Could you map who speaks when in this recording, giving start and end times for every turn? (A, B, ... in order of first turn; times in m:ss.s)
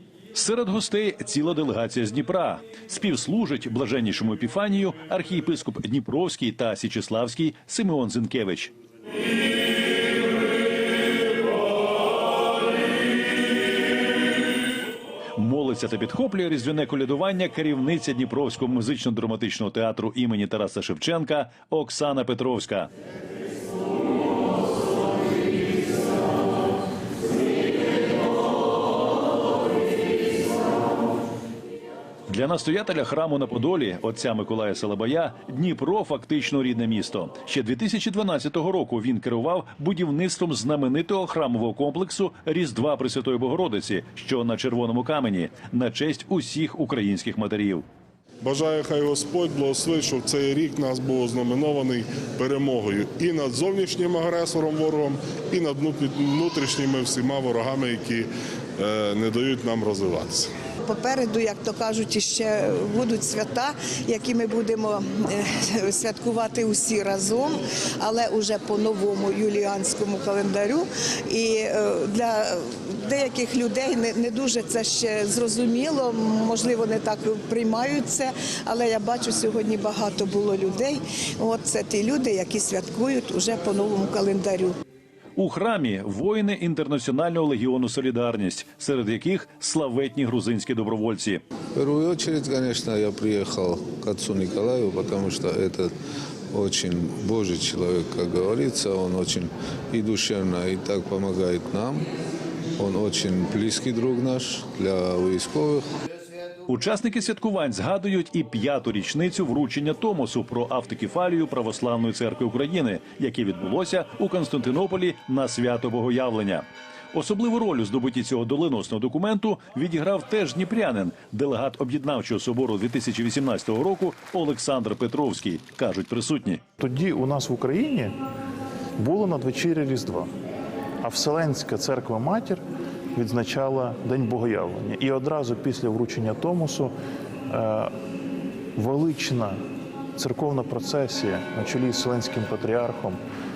0:00.3-0:08.7 A
0:15.4-0:22.9 A
0:32.3-0:47.8 A
0:48.4-0:58.3 B
0:58.8-1:00.5 B
1:00.8-1:12.4 C
1:13.0-1:24.7 C
1:25.4-1:31.4 A
1:31.7-1:35.9 D
1:36.5-1:42.1 D
1:42.8-1:45.8 D
1:46.7-2:06.6 A
2:06.8-2:08.2 E
2:09.0-2:10.3 E
2:11.0-2:17.0 E
2:17.5-2:18.0 E
2:18.7-2:19.6 E
2:20.2-2:23.2 E